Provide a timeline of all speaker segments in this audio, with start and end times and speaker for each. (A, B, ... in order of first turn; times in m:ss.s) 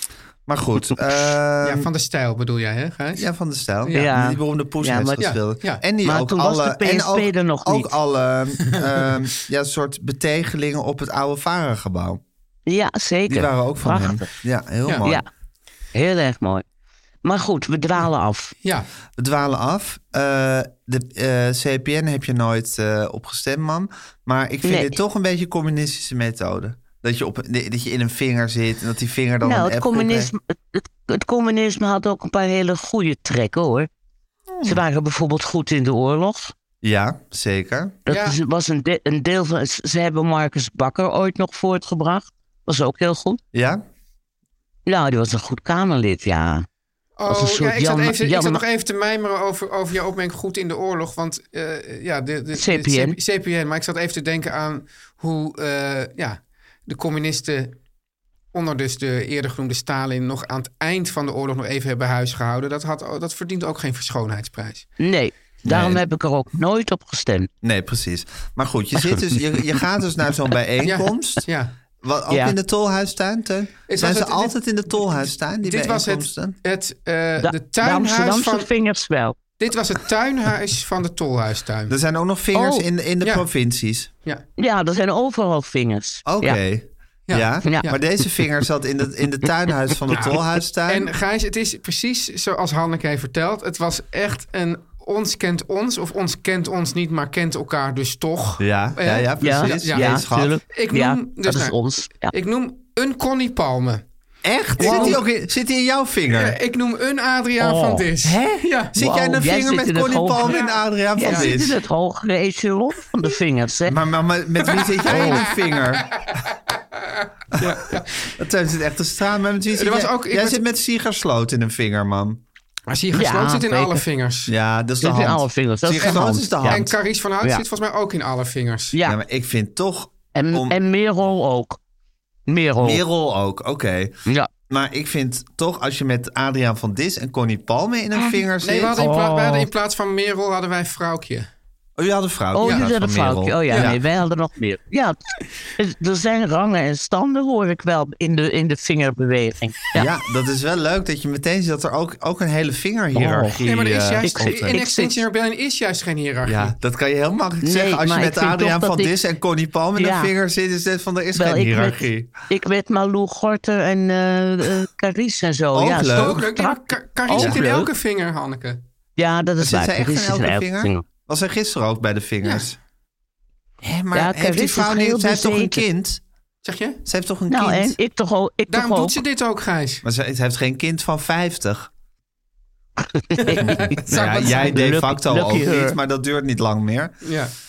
0:00.5-0:01.9 A
0:01.6-0:03.3 B
0:03.2-0:12.2 A
0:03.8-0:04.1 B
0:03.9-0:05.3 C
0:05.2-0:05.8 B
0:06.0-0:07.9 C
0:12.7-0:14.3 C
0:13.3-0:15.2 A
0:15.9-0:16.6 C
0:17.2-0:18.5 C
0:18.6-0:18.9 B
0:19.2-0:30.3 A
0:24.6-0:25.0 C
0:29.4-0:33.9 C
0:34.5-0:34.8 A
0:34.6-0:36.5 C
0:36.8-0:38.0 A
0:38.1-0:43.4 C
0:38.1-0:38.4 B
0:43.5-0:43.8 A
0:44.9-0:46.6 C
0:47.2-0:57.8 B
0:47.3-0:48.6 C
0:52.6-0:53.2 C
0:58.5-1:04.9 B
1:05.0-1:07.5 C
1:05.6-1:06.0 A
1:07.6-1:11.4 A
1:09.0-1:09.8 C
1:10.8-1:11.7 B
1:12.0-1:16.6 A
1:12.3-1:12.6 C
1:13.9-1:18.7 B
1:17.4-1:19.4 C
1:19.6-1:21.9 B
1:21.9-1:24.1 A
1:22.5-1:22.8 C
1:23.2-1:23.5 B
1:24.6-1:26.6 C
1:26.2-1:31.1 A
1:27.3-1:28.0 B
1:30.1-1:44.0 B
1:38.6-1:40.6 A
1:39.4-1:42.3 C
1:44.4-1:46.6 A
1:44.8-1:45.2 B
1:44.8-1:45.1 C
1:46.3-1:49.0 B
1:47.6-1:48.1 C
1:48.2-1:51.8 A
1:49.0-1:50.6 C
1:50.4-1:51.5 B
1:51.2-1:53.9 C
1:53.8-1:56.1 A
1:54.6-1:58.3 B
1:58.2-2:02.4 A
1:59.8-2:00.6 B
2:02.9-2:04.5 B
2:03.1-2:04.0 C
2:04.5-2:06.9 A
2:05.0-2:06.9 C
2:06.0-2:08.9 B
2:08.9-2:09.2 C
2:09.0-2:10.8 A
2:10.3-2:11.8 C
2:12.5-2:13.0 C
2:12.8-2:14.2 A
2:14.7-2:19.0 A
2:18.2-2:19.7 C
2:18.6-2:21.5 B
2:22.0-2:24.0 A
2:22.5-2:25.2 C
2:22.6-2:22.9 B
2:23.7-2:24.0 B
2:25.8-2:30.1 C
2:30.0-2:34.8 A
2:33.1-2:33.6 C
2:33.6-2:36.7 B
2:34.2-2:35.2 C
2:36.4-2:42.3 A
2:37.6-2:39.1 C
2:40.0-2:40.3 C
2:41.4-2:47.9 C
2:45.7-2:46.4 A
2:46.1-2:48.8 B
2:47.3-2:47.6 A
2:49.2-2:51.0 C
2:49.6-2:52.8 A
2:52.4-2:52.7 B
2:53.8-2:56.2 A
2:54.1-2:55.8 C
2:56.6-2:57.0 B
2:57.0-2:58.0 A
2:57.5-2:59.2 C
2:58.7-3:00.0 B
3:00.0-3:01.9 A
3:03.1-3:06.0 C
3:03.4-3:04.8 B
3:03.6-3:07.2 A
3:07.2-3:07.5 B